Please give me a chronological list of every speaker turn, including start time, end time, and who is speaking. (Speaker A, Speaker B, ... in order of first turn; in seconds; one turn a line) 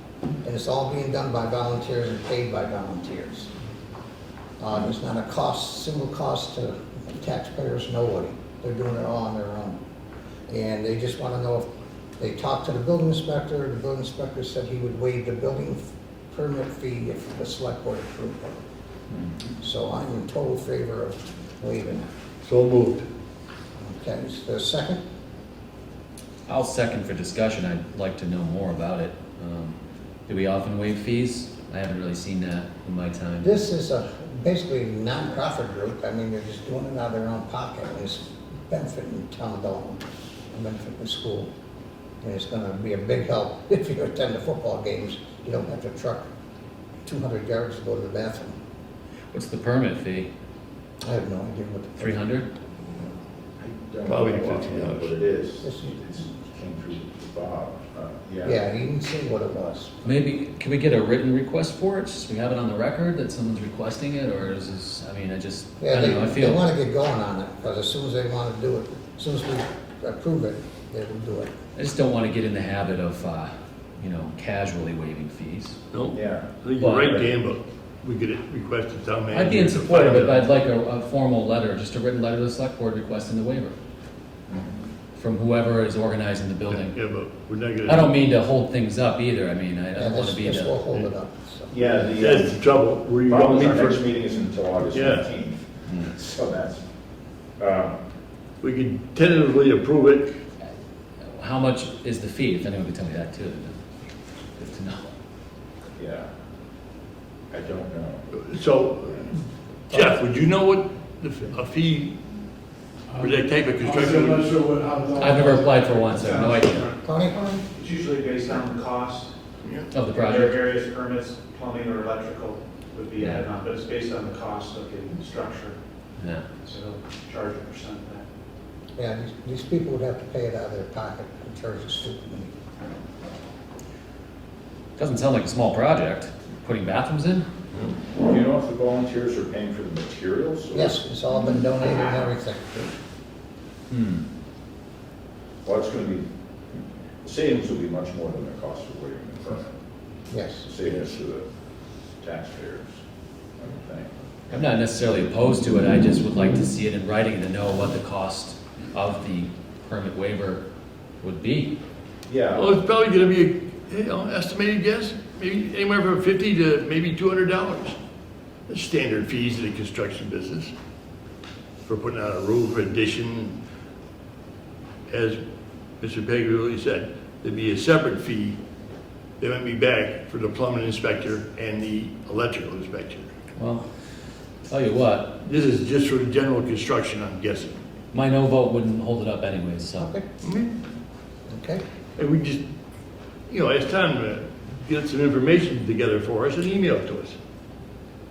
Speaker A: 0.4-3.5
Speaker A: 4.6-9.8
Speaker A: 10.5-11.7
Speaker A: 12.2-18.6
Speaker A: 19.6-22.1
Speaker B: 22.4-23.1
Speaker A: 23.8-25.0
Speaker C: 26.5-29.8
Speaker C: 30.3-33.5
Speaker A: 33.4-41.5
Speaker A: 42.2-46.3
Speaker A: 47.0-48.6
Speaker C: 49.3-50.3
Speaker A: 51.0-52.2
Speaker C: 52.0-52.5
Speaker D: 53.6-58.6
Speaker B: 54.1-55.1
Speaker A: 55.6-56.0
Speaker A: 58.4-59.9
Speaker C: 60.0-66.6
Speaker A: 65.8-71.5
Speaker C: 71.8-75.8
Speaker B: 75.9-80.4
Speaker D: 76.1-76.5
Speaker C: 76.8-77.2
Speaker C: 79.3-83.8
Speaker D: 84.5-84.8
Speaker C: 85.2-87.0
Speaker B: 86.7-88.2
Speaker C: 87.9-90.8
Speaker A: 90.0-91.8
Speaker D: 91.7-92.6
Speaker B: 92.2-94.0
Speaker D: 93.3-96.8
Speaker B: 94.9-95.3
Speaker D: 97.6-98.0
Speaker B: 98.6-100.4
Speaker C: 101.3-103.8
Speaker C: 104.6-105.1
Speaker D: 106.0-106.3
Speaker D: 107.5-108.3
Speaker B: 108.3-112.2
Speaker E: 113.1-116.3
Speaker B: 113.2-114.5
Speaker C: 115.2-116.9
Speaker F: 116.3-119.3
Speaker A: 117.0-117.4
Speaker B: 119.6-119.9
Speaker C: 119.9-120.6
Speaker F: 120.1-125.8
Speaker C: 123.2-123.5
Speaker C: 126.2-126.5
Speaker F: 126.6-128.3
Speaker A: 129.0-132.5
Speaker C: 135.0-137.5
Speaker D: 138.2-141.0
Speaker A: 140.7-142.9
Speaker C: 143.9-144.2
Speaker D: 145.6-146.3
Speaker D: 147.2-149.7
Speaker A: 150.3-150.7
Speaker D: 150.6-151.5
Speaker D: 152.2-153.0
Speaker D: 153.6-154.1
Speaker C: 154.5-160.6
Speaker C: 161.2-161.8
Speaker D: 162.3-162.8
Speaker B: 162.6-168.0
Speaker B: 168.7-170.7
Speaker B: 171.9-173.6
Speaker B: 175.1-175.4
Speaker B: 176.0-178.6
Speaker B: 179.4-183.3
Speaker C: 183.6-183.9
Speaker C: 184.7-185.4
Speaker B: 185.4-187.8
Speaker C: 188.1-190.1
Speaker B: 190.4-190.7
Speaker A: 191.5-191.8
Speaker B: 192.2-192.6
Speaker B: 193.5-197.4